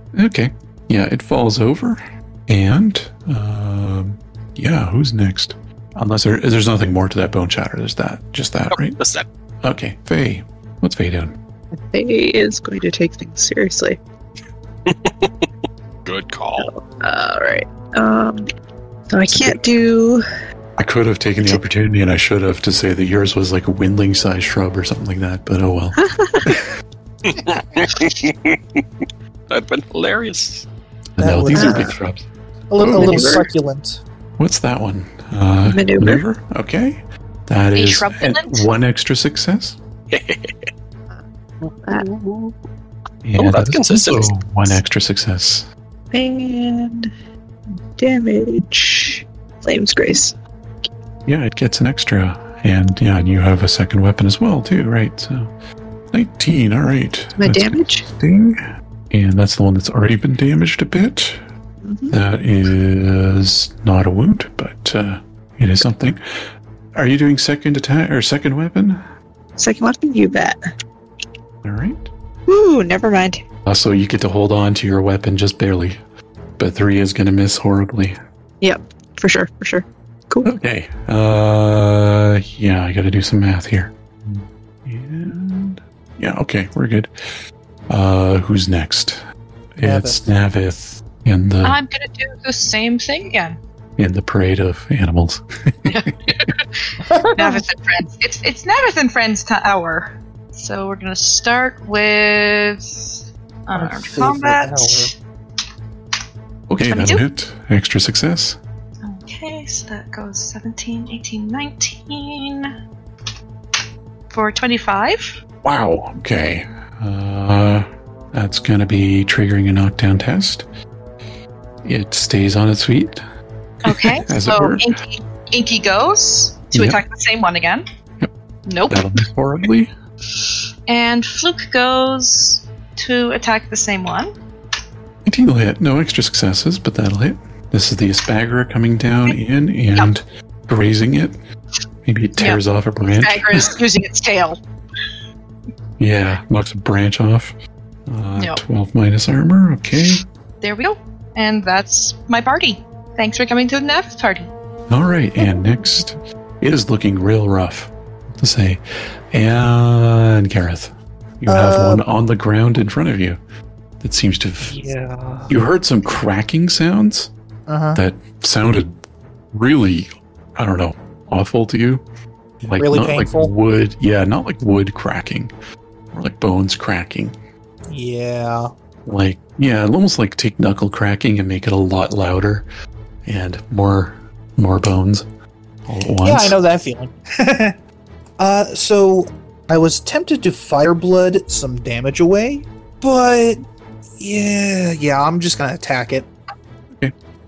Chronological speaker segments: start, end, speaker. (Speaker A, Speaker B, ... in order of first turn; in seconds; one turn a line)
Speaker A: 0.1-9.0
Speaker B: 8.7-9.3
Speaker A: 9.6-11.4
Speaker C: 11.8-14.0
Speaker B: 14.9-15.4
Speaker B: 16.1-16.7
Speaker C: 16.6-18.5
Speaker C: 19.1-20.2
Speaker A: 19.3-19.6
Speaker A: 20.8-26.7
Speaker C: 26.0-26.6
Speaker B: 27.2-28.8
Speaker B: 29.5-30.7
Speaker A: 31.2-32.2
Speaker D: 31.2-31.9
Speaker C: 31.5-31.9
Speaker D: 32.7-34.0
Speaker A: 32.8-33.5
Speaker C: 32.9-33.5
Speaker A: 34.4-39.8
Speaker C: 35.7-36.2
Speaker E: 37.8-38.7
Speaker B: 40.1-40.5
Speaker C: 41.1-42.1
Speaker D: 42.0-42.5
Speaker A: 43.2-45.7
Speaker B: 43.4-44.7
Speaker C: 46.1-47.1
Speaker C: 48.0-50.3
Speaker A: 51.3-55.5
Speaker A: 56.1-58.6
Speaker C: 57.4-58.1
Speaker A: 59.1-61.4
Speaker C: 61.8-62.2
Speaker A: 62.1-66.2
Speaker A: 67.0-69.0
Speaker C: 69.6-70.6
Speaker A: 71.6-72.1
Speaker C: 72.5-73.4
Speaker A: 73.7-76.0
Speaker A: 76.6-78.2
Speaker C: 78.6-80.5
Speaker A: 80.4-87.1
Speaker A: 87.9-89.2
Speaker A: 89.8-91.8
Speaker D: 89.8-90.2
Speaker E: 91.6-93.6
Speaker A: 94.0-96.3
Speaker E: 95.9-105.1
Speaker D: 97.0-97.6
Speaker D: 103.7-105.1
Speaker A: 106.7-108.6
Speaker E: 106.9-107.2
Speaker E: 109.0-112.7
Speaker E: 114.3-115.4
Speaker A: 115.6-120.7
Speaker A: 121.8-123.2
Speaker E: 123.8-127.8
Speaker A: 123.8-124.9
Speaker A: 126.7-127.0
Speaker E: 128.7-129.1
Speaker A: 128.9-129.9
Speaker E: 130.9-134.3
Speaker A: 135.2-141.4
Speaker A: 142.1-143.8
Speaker E: 142.4-144.6
Speaker A: 146.0-147.6
Speaker A: 148.1-150.2
Speaker E: 148.4-148.6
Speaker E: 150.6-154.5
Speaker A: 154.9-163.4
Speaker D: 161.5-162.0
Speaker A: 164.0-164.8
Speaker D: 164.7-165.5
Speaker A: 165.5-167.3
Speaker D: 167.7-168.0
Speaker A: 167.9-169.0
Speaker A: 169.5-172.1
Speaker A: 172.6-175.5
Speaker D: 172.8-173.5
Speaker A: 176.1-177.4
Speaker D: 177.9-178.7
Speaker A: 179.1-182.7
Speaker A: 183.2-185.3
Speaker A: 185.9-186.6
Speaker D: 186.2-187.8
Speaker D: 188.4-193.6
Speaker D: 194.2-196.3